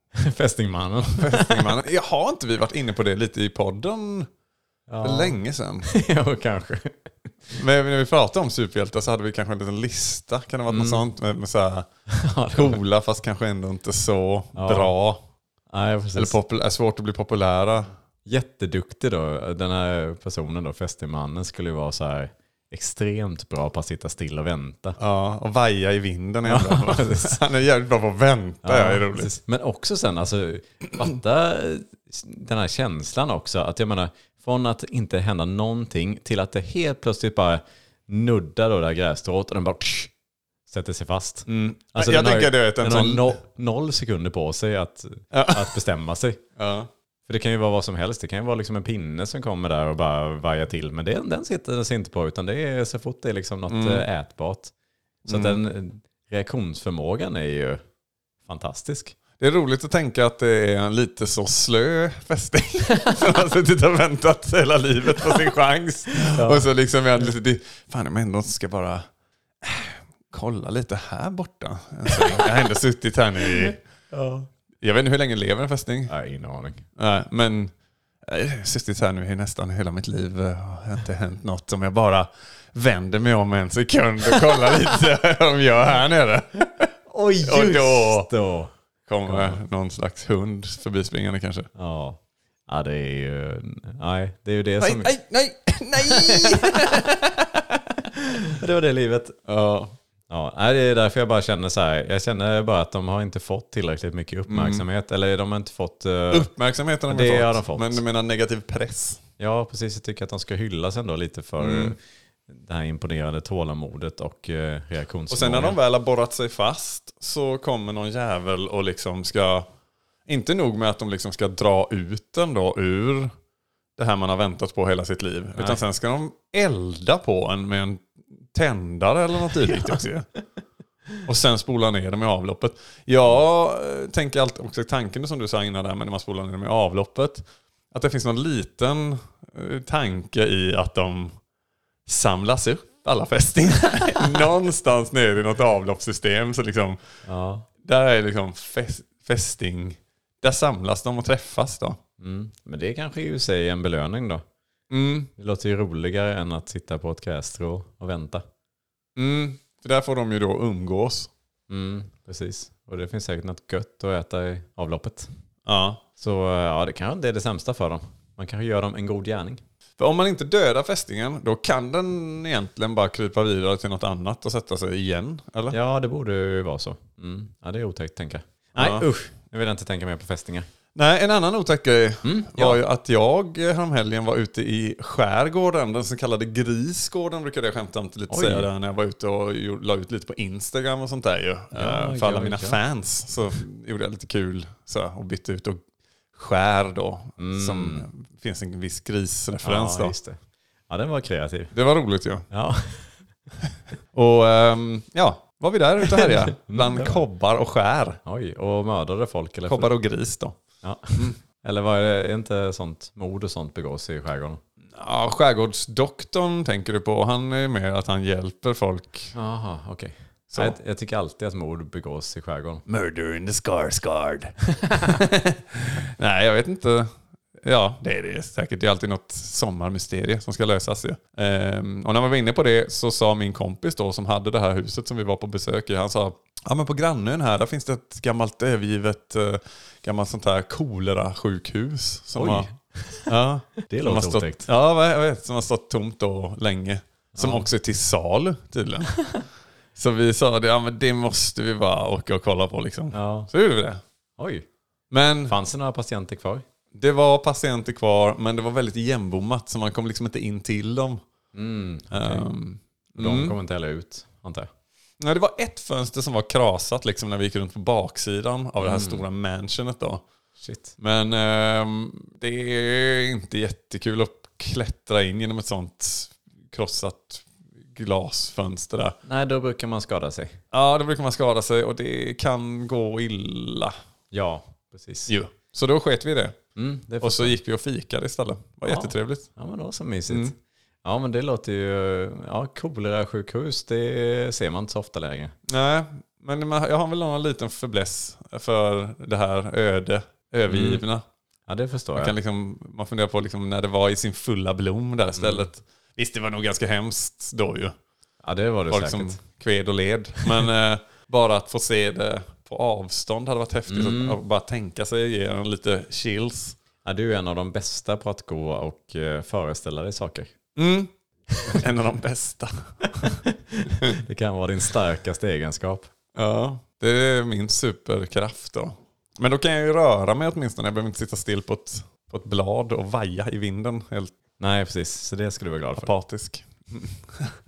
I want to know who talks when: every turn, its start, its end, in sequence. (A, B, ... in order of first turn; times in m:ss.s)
0:00.2-0:01.7 A
0:01.2-0:04.3 B
0:04.9-0:07.3 A
0:05.0-0:05.9 B
0:07.5-0:11.9 B
0:10.7-0:11.0 A
0:12.1-0:12.8 A
0:12.6-0:15.2 B
0:14.6-0:14.9 A
0:15.7-0:16.4 A
0:16.2-0:17.9 B
0:18.3-0:25.0 A
0:25.0-0:29.3 B
0:26.4-0:27.4 A
0:28.6-0:40.1 A
0:40.7-0:46.4 A
0:41.5-0:43.4 B
0:45.3-0:45.8 B
0:46.6-0:46.9 B
0:47.3-0:54.7 A
0:53.7-0:54.1 B
0:55.3-0:55.6 B
0:55.3-0:57.8 A
0:58.4-0:59.2 A
0:59.4-1:09.1 B
1:06.2-1:06.7 A
1:09.6-1:13.8 B
1:14.1-1:14.5 A
1:14.8-1:16.1 B
1:16.1-1:16.8 A
1:17.0-1:17.7 B
1:18.2-1:26.9 B
1:27.1-1:28.7 A
1:27.4-1:28.3 B
1:29.1-1:31.7 B
1:29.3-1:29.6 A
1:31.8-1:35.1 A
1:34.8-1:37.9 B
1:36.0-1:37.0 A
1:38.4-1:39.4 A
1:39.5-1:40.0 B
1:40.3-1:46.5 A
1:44.5-1:44.8 B
1:46.3-1:49.2 B
1:47.1-1:48.0 A
1:49.4-1:52.0 A
1:51.6-1:52.0 B
1:52.5-1:55.8 A
1:55.3-1:59.7 B
2:00.3-2:03.3 B
2:04.0-2:10.3 B
2:05.6-2:05.8 A
2:11.2-2:21.3 B
2:22.1-2:27.0 B
2:27.2-2:27.7 A
2:27.8-2:32.0 B
2:32.2-2:34.4 A
2:34.9-2:35.3 B
2:35.4-2:38.4 A
2:39.2-2:41.3 B
2:41.7-2:45.3 A
2:45.7-2:46.0 B
2:46.2-2:49.6 A
2:50.0-2:55.8 B
2:55.7-3:00.7 A
2:58.8-2:59.1 B
3:01.0-3:15.8 B
3:02.2-3:02.8 A
3:08.3-3:08.7 A
3:11.7-3:12.8 A
3:16.3-3:20.2 B
3:17.4-3:18.1 A
3:19.6-3:20.4 A
3:20.9-3:21.8 A
3:21.7-3:22.5 B
3:22.5-3:23.2 A
3:24.1-3:28.2 B
3:26.0-3:27.2 A
3:28.2-3:29.9 A
3:29.7-3:30.6 B
3:30.8-3:34.6 A
3:34.9-3:39.3 B
3:39.3-3:42.8 A
3:40.5-3:40.8 B
3:42.9-4:02.7 B
4:02.4-4:04.7 A
4:03.3-4:09.3 B
4:07.3-4:07.7 A
4:10.0-4:14.0 B
4:13.1-4:13.5 A
4:14.4-4:14.7 A
4:15.1-4:15.6 B
4:15.5-4:16.6 A
4:17.0-4:21.2 B
4:21.5-4:22.4 A
4:22.1-4:23.6 B
4:23.2-4:24.7 A
4:25.2-4:30.2 B
4:28.8-4:29.2 A
4:30.6-4:30.9 A
4:31.0-4:39.2 B
4:39.2-4:40.6 A
4:40.7-4:43.9 B
4:44.3-4:45.3 A
4:45.3-4:46.6 B
4:46.8-4:47.6 A
4:47.2-4:49.5 B
4:48.8-4:55.5 A
4:50.3-4:50.5 B
4:55.7-5:01.2 B
5:00.7-5:01.0 A
5:01.7-5:02.4 A
5:02.2-5:08.0 B
5:05.4-5:05.6 A
5:08.4-5:09.4 A
5:08.9-5:16.8 B
5:13.9-5:14.4 A
5:17.0-5:20.5 A
5:20.8-5:21.1 B
5:21.6-5:23.4 B
5:23.2-5:26.1 A
5:26.4-5:34.4 B
5:34.6-5:36.1 A
5:36.0-5:37.5 B